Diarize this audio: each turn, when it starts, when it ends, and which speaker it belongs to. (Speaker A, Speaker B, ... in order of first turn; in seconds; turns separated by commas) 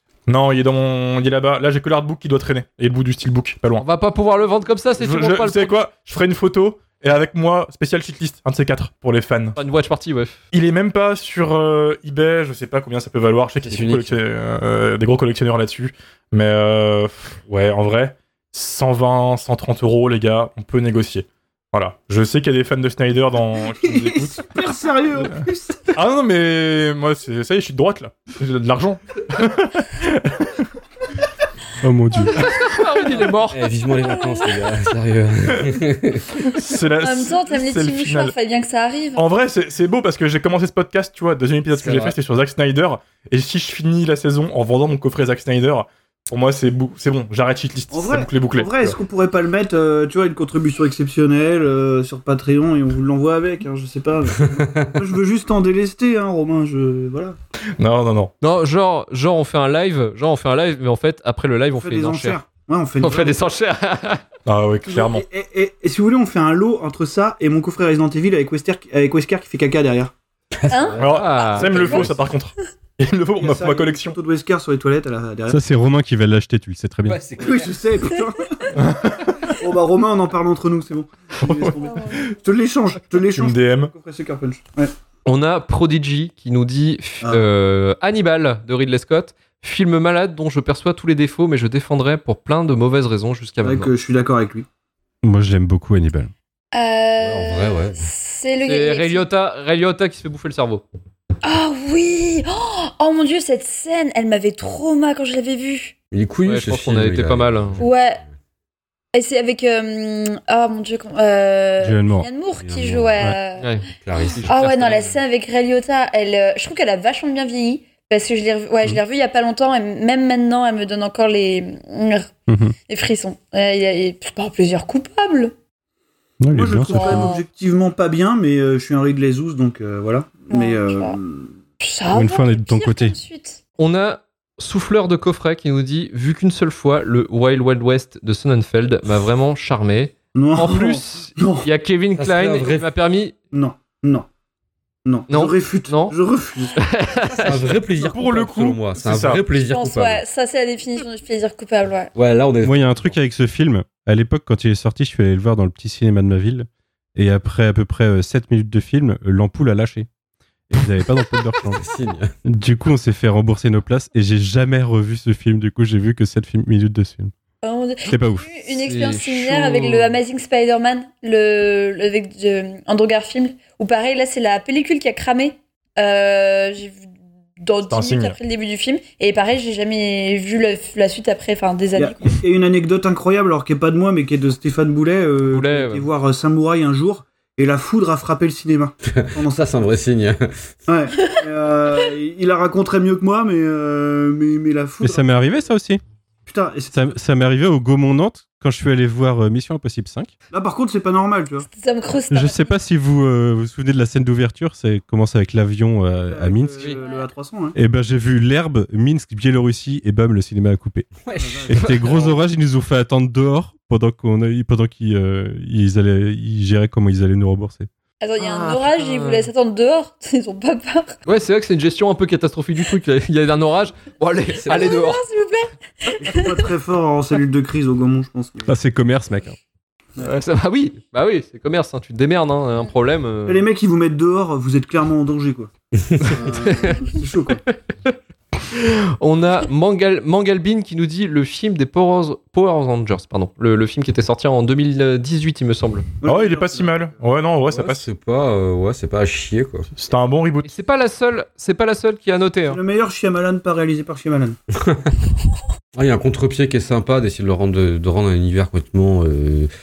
Speaker A: 0.3-3.8, Speaker B: 3.8-5.8, Speaker A: 5.0-9.6, Speaker B: 9.6-10.4, Speaker A: 10.5-24.5, Speaker C: 13.6-14.2, Speaker D: 23.7-25.9, Speaker A: 25.9-30.5, Speaker E: 31.8-32.5, Speaker B: 32.4-33.6, Speaker C: 33.5-36.3, Speaker F: 34.0-34.5, Speaker A: 36.5-38.3, Speaker F: 37.0-39.2, Speaker A: 39.2-49.0, Speaker C: 41.7-42.1, Speaker D: 47.9-57.4, Speaker C: 54.5-55.0, Speaker A: 57.8-58.3, Speaker B: 58.4-62.4, Speaker D: 61.8-63.4, Speaker B: 63.0-64.2, Speaker A: 64.5-65.2, Speaker D: 64.9-70.1, Speaker C: 70.6-72.1, Speaker F: 70.7-71.0, Speaker A: 71.0-74.2, Speaker B: 71.1-71.9, Speaker F: 71.6-72.1, Speaker D: 73.4-75.6, Speaker E: 75.5-77.2, Speaker C: 77.1-77.8, Speaker D: 77.4-78.8, Speaker A: 78.7-79.3, Speaker D: 79.5-84.9, Speaker A: 81.4-81.7, Speaker F: 81.8-82.3, Speaker A: 83.3-83.9, Speaker B: 85.3-93.9, Speaker D: 93.6-94.7, Speaker E: 95.2-96.3, Speaker F: 96.7-99.3, Speaker C: 97.2-98.1, Speaker B: 98.6-100.8, Speaker F: 101.4-105.9, Speaker C: 106.1-108.0, Speaker B: 106.5-107.8, Speaker F: 107.8-108.2, Speaker F: 109.1-113.8, Speaker E: 111.8-112.3, Speaker C: 112.6-113.3, Speaker B: 113.6-115.2, Speaker C: 114.0-114.5, Speaker F: 114.5-122.3, Speaker E: 122.5-122.8, Speaker F: 122.9-125.5, Speaker E: 126.4-127.3, Speaker D: 126.5-131.6, Speaker F: 126.9-127.4, Speaker F: 130.5-131.2, Speaker F: 131.8-133.6, Speaker E: 132.1-133.2, Speaker B: 133.8-143.3, Speaker D: 140.3-141.7, Speaker C: 142.2-142.9, Speaker D: 143.5-144.3, Speaker D: 145.1-148.2, Speaker B: 145.3-146.2, Speaker B: 146.8-147.6, Speaker C: 147.4-150.2, Speaker A: 148.1-149.4, Speaker F: 149.7-152.1, Speaker C: 152.2-153.2, Speaker E: 152.6-160.1, Speaker E: 160.7-161.8, Speaker C: 161.6-162.3, Speaker E: 162.5-167.3, Speaker F: 167.6-182.3, Speaker E: 168.1-168.5, Speaker B: 168.7-170.2, Speaker A: 177.9-178.4, Speaker D: 182.0-189.8, Speaker B: 185.5-186.1, Speaker C: 189.1-190.7, Speaker D: 190.9-195.3, Speaker E: 195.0-196.0, Speaker D: 196.5-197.2, Speaker E: 196.9-200.3, Speaker D: 200.5-201.7, Speaker F: 201.7-202.8, Speaker E: 202.3-206.9, Speaker D: 206.2-207.8, Speaker F: 207.0-207.3, Speaker E: 207.8-211.1, Speaker C: 211.2-211.8, Speaker D: 211.3-212.2, Speaker E: 211.7-217.9, Speaker B: 211.8-212.3, Speaker F: 218.2-221.2, Speaker B: 218.4-219.5, Speaker B: 221.3-225.2, Speaker C: 224.5-225.1, Speaker F: 224.7-226.6, Speaker D: 226.2-228.8, Speaker E: 228.7-229.6, Speaker B: 230.2-233.7, Speaker D: 233.5-235.7, Speaker C: 236.0-236.3, Speaker D: 236.2-237.6, Speaker B: 236.2-237.0, Speaker B: 238.7-246.1, Speaker D: 246.2-247.2, Speaker A: 246.3-248.1, Speaker C: 247.7-249.9, Speaker A: 249.9-250.7, Speaker B: 250.7-252.8, Speaker D: 252.7-254.6, Speaker C: 254.8-255.2, Speaker C: 255.9-259.7